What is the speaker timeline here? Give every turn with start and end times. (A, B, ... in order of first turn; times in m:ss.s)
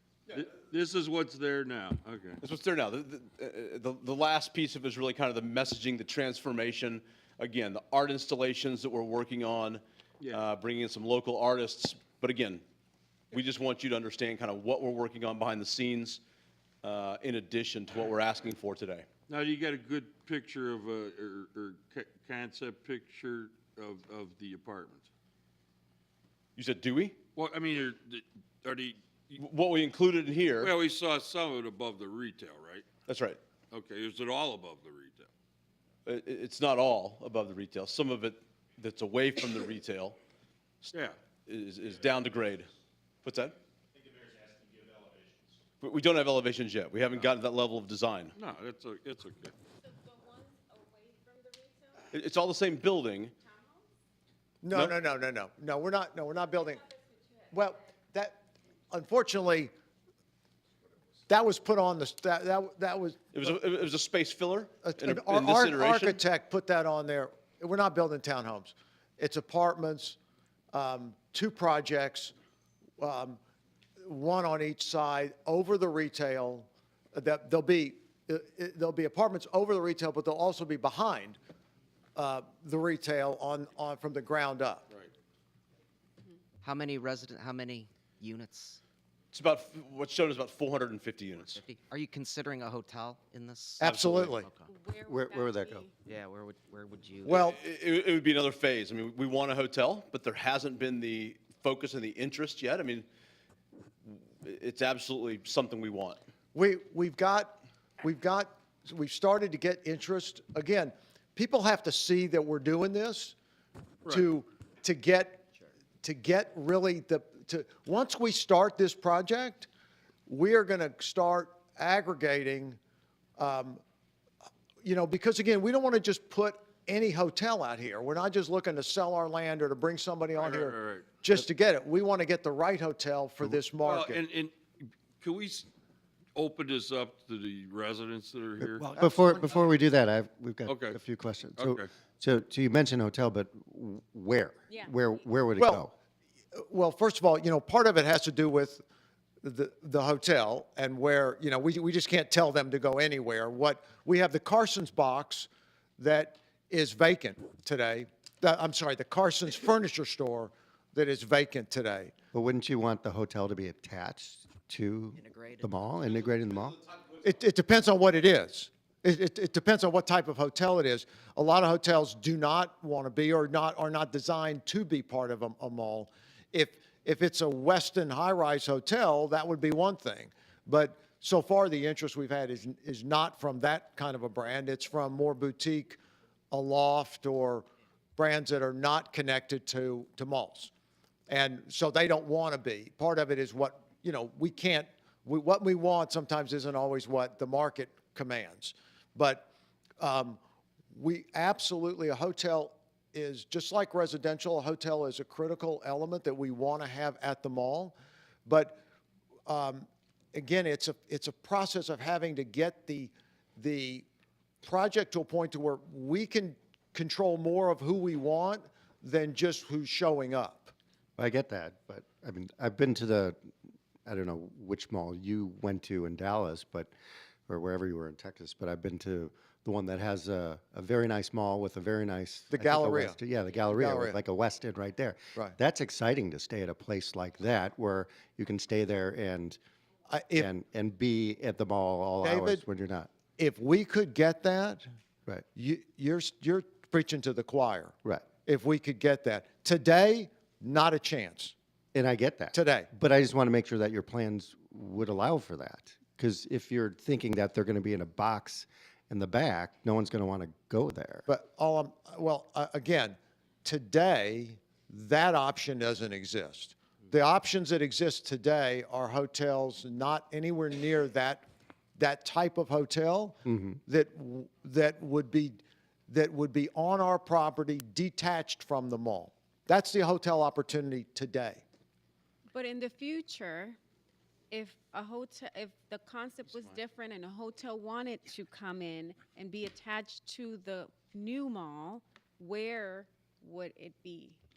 0:00.3-0:02.4 A
0:02.4-0:12.6 B
0:13.3-0:16.2 B
0:16.8-0:19.1 B
0:19.3-0:25.1 A
0:26.6-0:27.2 B
0:27.3-0:29.3 A
0:29.4-0:30.7 B
0:30.6-0:32.8 A
0:33.1-0:33.4 B
0:33.7-0:35.3 A
0:36.0-0:40.2 B
0:41.4-0:42.7 B
0:43.2-0:43.6 B
0:45.8-0:48.3 B
0:48.3-0:49.5 A
0:49.9-0:51.9 C
0:52.1-0:53.3 B
0:54.6-0:56.8 D
0:57.5-0:58.4 D
0:58.9-0:59.7 D
1:01.3-1:03.5 D
1:03.3-1:06.2 B
1:04.8-1:10.2 D
1:10.7-1:12.3 D
1:13.0-1:13.4 D
1:14.0-1:21.4 D
1:22.2-1:24.8 D
1:26.6-1:28.8 E
1:29.3-1:31.6 B
1:31.5-1:34.7 E
1:33.8-1:34.5 D
1:33.8-1:34.3 B
1:34.7-1:35.9 C
1:35.1-1:35.8 F
1:36.0-1:37.4 E
1:37.2-1:37.6 D
1:37.2-1:43.1 B
1:44.0-1:46.2 B
1:46.5-1:53.3 D
1:54.0-1:55.5 D
1:56.0-1:59.7 D
2:00.3-2:02.8 D
2:03.4-2:03.8 D
2:04.8-2:14.2 D
2:10.3-2:11.4 A
2:13.8-2:15.7 A
2:16.3-2:19.0 A
2:18.6-2:25.9 F
2:19.0-2:19.4 D
2:20.6-2:21.0 A
2:21.6-2:21.9 A
2:25.6-2:25.9 D
2:26.6-2:28.8 D
2:29.4-2:42.1 D
2:42.3-2:46.8 F
2:45.1-2:45.8 E
2:47.2-3:06.0 D
3:06.5-3:07.6 D
3:08.2-3:10.7 D
3:11.3-3:19.5 D
3:20.0-3:20.4 D
3:20.9-3:28.8 D
3:29.5-3:34.0 D
3:34.6-3:40.7 D
3:41.2-3:43.4 F
3:44.0-3:46.9 F
3:47.5-3:59.6 F
3:52.5-3:54.2 D
4:00.1-4:00.5 D
4:00.4-4:03.1 F
4:02.2-4:02.6 D
4:03.4-4:04.8 D
4:05.5-4:11.5 D
4:11.9-4:21.2 F
4:12.5-4:12.9 D
4:21.3-4:31.4 D
4:32.0-4:41.6 D
4:33.5-4:33.8 F
4:42.5-4:43.8 C
4:44.5-4:54.4 C